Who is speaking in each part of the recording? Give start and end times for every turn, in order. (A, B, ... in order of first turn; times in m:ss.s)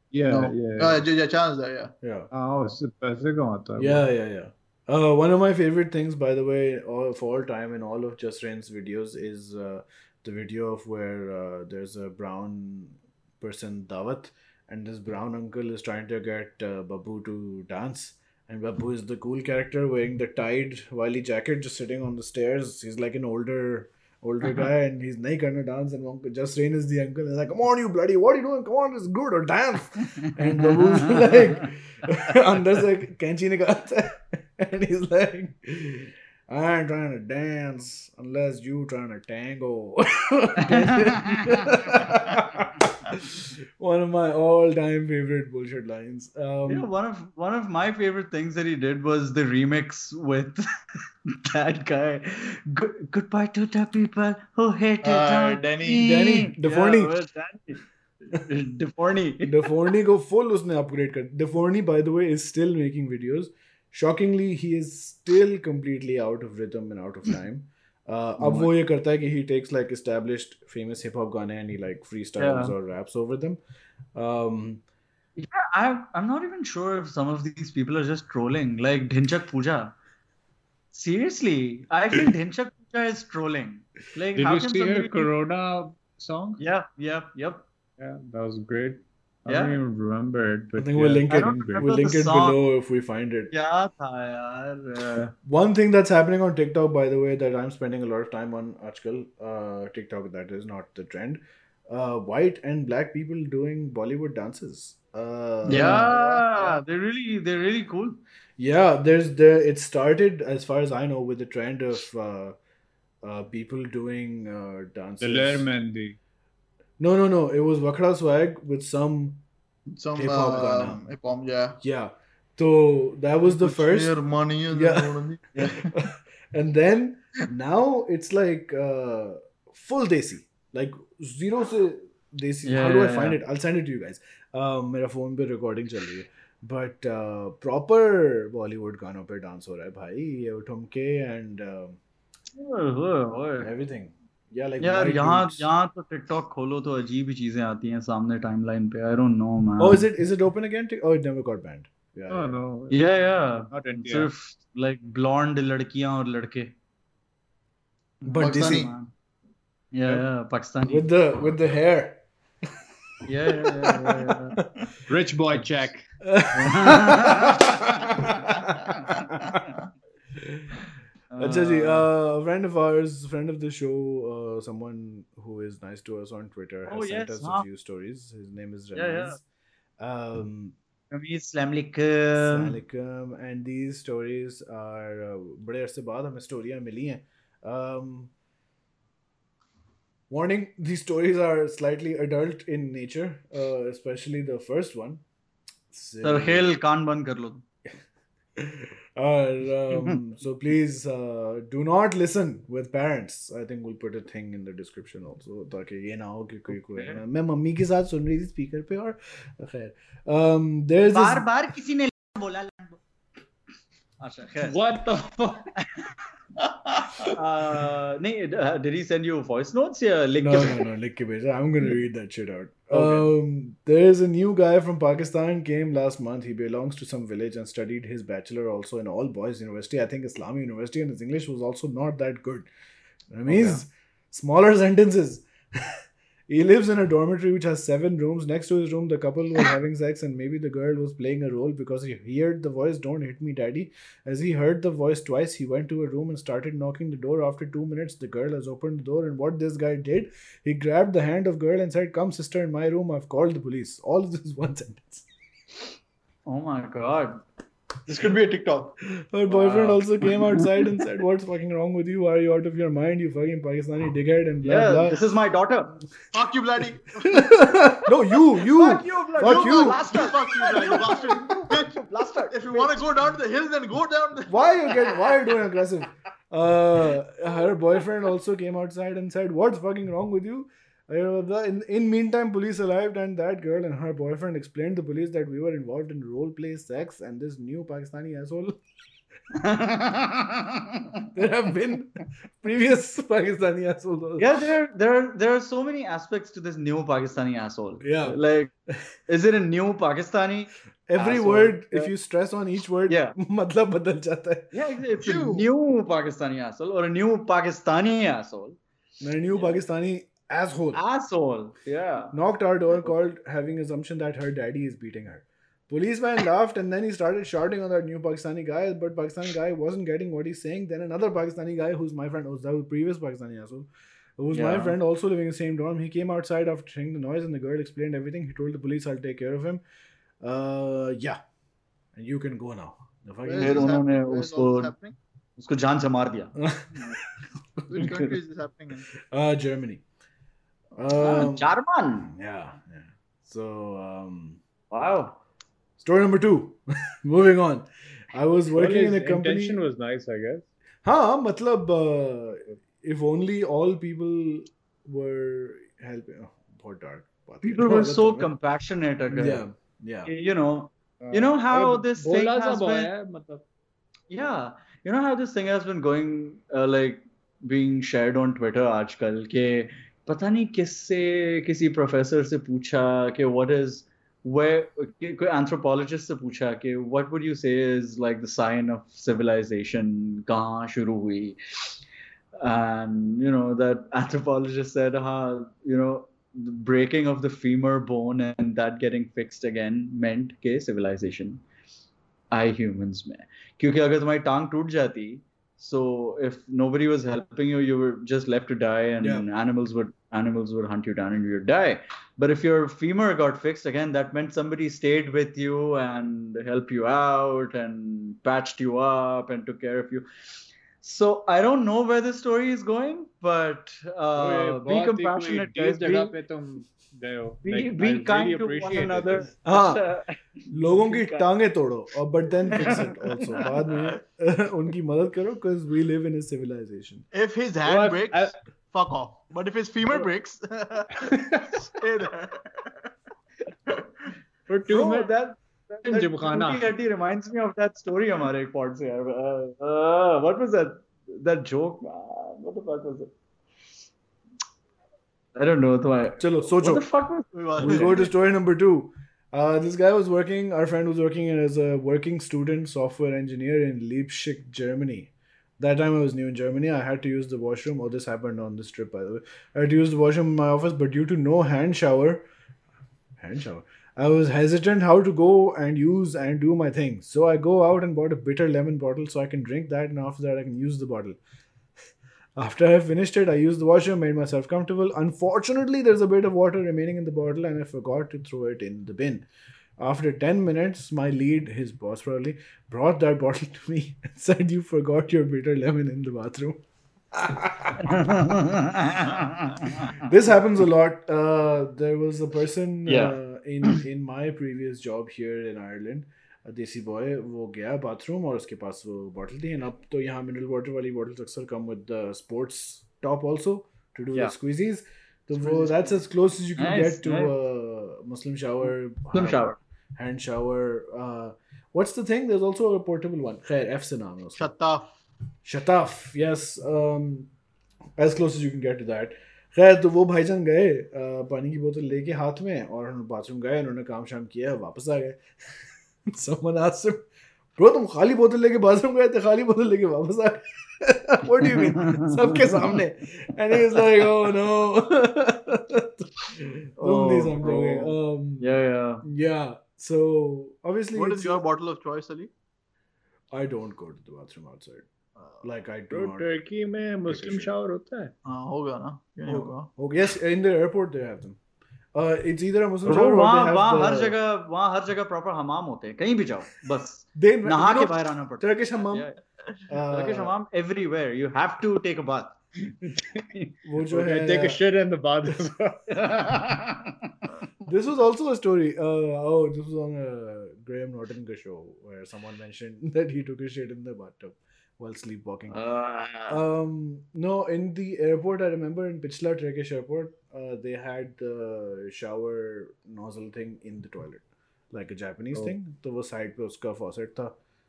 0:00.1-0:01.1 A
0:00.3-0:01.9 B
0:02.0-0:02.3 C
0:02.3-0:04.1 A
0:03.8-0:46.9 C
0:40.7-0:42.1 D
0:46.7-0:50.6 D
0:51.4-0:59.7 D
0:55.0-0:56.1 B
0:55.9-0:57.1 C
0:59.4-1:13.6 C
1:08.4-1:08.7 D
1:12.4-1:12.7 D
1:14.2-1:14.8 C
1:15.4-1:20.0 D
1:20.9-1:25.3 D
1:24.4-1:26.6 A
1:26.6-1:27.7 D
1:28.0-1:31.9 A
1:29.5-1:29.8 D
1:30.8-1:33.5 C
1:31.3-1:32.6 D
1:33.5-1:35.3 D
1:35.4-1:46.8 C
1:45.7-1:48.2 D
1:45.7-1:46.0 B
1:48.6-1:52.6 C
1:53.2-1:55.7 C
1:55.2-1:56.2 A
1:57.0-1:59.4 C
1:59.9-2:01.8 B
2:00.2-2:01.0 C
2:01.8-2:04.2 C
2:03.5-2:05.9 B
2:04.7-2:22.0 C
2:12.6-2:13.4 D
2:22.5-2:23.7 D
2:23.6-2:25.7 C
2:24.8-2:30.1 D
2:29.8-2:32.5 C
2:32.3-2:33.0 A
2:32.9-2:36.8 D
2:33.7-2:34.3 A
2:38.2-2:39.1 D
2:38.3-2:38.9 C
2:38.4-2:38.9 B
2:39.9-2:41.1 D
2:40.9-2:42.2 C
2:43.3-2:44.6 D
2:43.4-2:44.8 C
2:45.1-2:46.0 A
2:46.2-2:49.7 C
2:46.5-2:49.6 D
2:50.4-2:50.8 C
2:51.3-2:52.1 D
2:51.4-2:59.4 C
2:56.9-2:57.7 D
2:58.9-2:59.4 D
3:00.0-3:00.8 C
3:01.1-3:02.8 D
3:02.4-3:08.3 C
3:10.3-3:15.2 C
3:15.9-3:16.8 C
3:16.2-3:17.6 D
3:18.6-3:31.5 C
3:26.9-3:27.2 D
3:31.1-3:33.0 D
3:34.2-3:34.8 D
3:34.6-3:35.7 A
3:37.2-3:40.8 D
3:40.4-3:52.7 C
3:42.9-3:43.2 D
3:53.3-4:15.3 C
3:53.5-3:53.8 D
4:16.5-4:17.4 D
4:18.1-4:19.0 B
4:19.3-4:25.2 C
4:19.5-4:20.6 D
4:24.6-4:26.0 D
4:26.3-4:27.6 B
4:27.3-4:30.4 C
4:28.6-4:33.1 D
4:29.4-4:34.6 B
4:34.5-4:48.8 C
4:49.5-4:51.0 D
4:51.3-4:54.6 C
4:54.4-4:58.7 D
4:58.0-4:58.4 C
4:59.3-5:02.1 D
5:01.1-5:04.7 C
5:03.1-5:03.4 D
5:04.7-5:08.8 D
5:05.2-5:05.7 B
5:09.2-5:11.0 C
5:09.5-5:09.8 D
5:10.9-5:12.4 D
5:12.3-5:29.8 C
5:24.5-5:25.0 D
5:30.4-5:31.4 C
5:32.2-5:34.0 C
5:33.4-5:35.2 B
5:33.6-5:34.9 D
5:35.6-5:37.2 D
5:36.6-5:37.2 C
5:37.8-5:38.2 C
5:37.9-5:39.1 B
5:39.3-5:40.0 C
5:41.0-5:41.7 C
5:41.2-5:42.3 D
5:42.2-5:44.6 C
5:44.9-5:45.4 D
5:46.0-5:49.8 C
5:48.7-5:50.7 A
5:51.0-5:58.5 C
5:57.6-5:59.6 D
5:59.3-6:00.3 C
6:00.2-6:03.1 D
6:01.2-6:03.6 A
6:04.3-6:21.6 D
6:22.6-6:31.6 D
6:32.5-6:50.3 D
6:51.0-6:56.4 D
6:54.4-6:59.5 A
6:57.6-7:01.5 D
6:59.6-7:00.0 C
7:00.7-7:07.2 C
7:02.7-7:03.7 D
7:07.3-7:12.9 B
7:07.8-7:08.6 A
7:11.2-7:11.4 A
7:14.7-7:15.3 A
7:14.9-7:23.3 D
7:16.0-7:16.9 A
7:25.6-7:28.3 D
7:26.4-7:27.1 C
7:27.5-7:28.3 B
7:27.8-7:42.4 C
7:43.4-7:51.4 C
7:52.6-7:59.5 C
8:00.0-8:08.2 C
8:08.0-8:10.2 D
8:10.2-8:29.6 C
8:13.1-8:14.0 D
8:25.6-8:26.2 B
8:26.8-8:27.5 D
8:29.3-8:29.8 D
8:30.2-8:34.7 C
8:34.6-8:35.2 B
8:35.6-8:37.5 C
8:38.2-8:58.7 C
8:52.0-8:53.0 D
8:57.0-8:59.2 D
8:59.2-9:01.7 C
9:01.2-9:02.5 B
9:03.5-9:05.1 C
9:05.4-9:05.6 B
9:05.6-9:06.5 C
9:06.1-9:08.3 A
9:07.2-9:07.7 C
9:08.5-9:09.9 B
9:09.5-9:11.6 C
9:12.1-9:14.4 C
9:13.0-9:19.4 D
9:17.4-9:19.3 C
9:19.9-9:20.5 C
9:20.1-9:22.6 D
9:23.1-9:23.4 A
9:23.8-9:24.8 C
9:24.1-9:26.5 A
9:26.1-9:27.1 D
9:27.9-9:35.8 C
9:35.7-9:36.6 D
9:36.5-9:47.5 C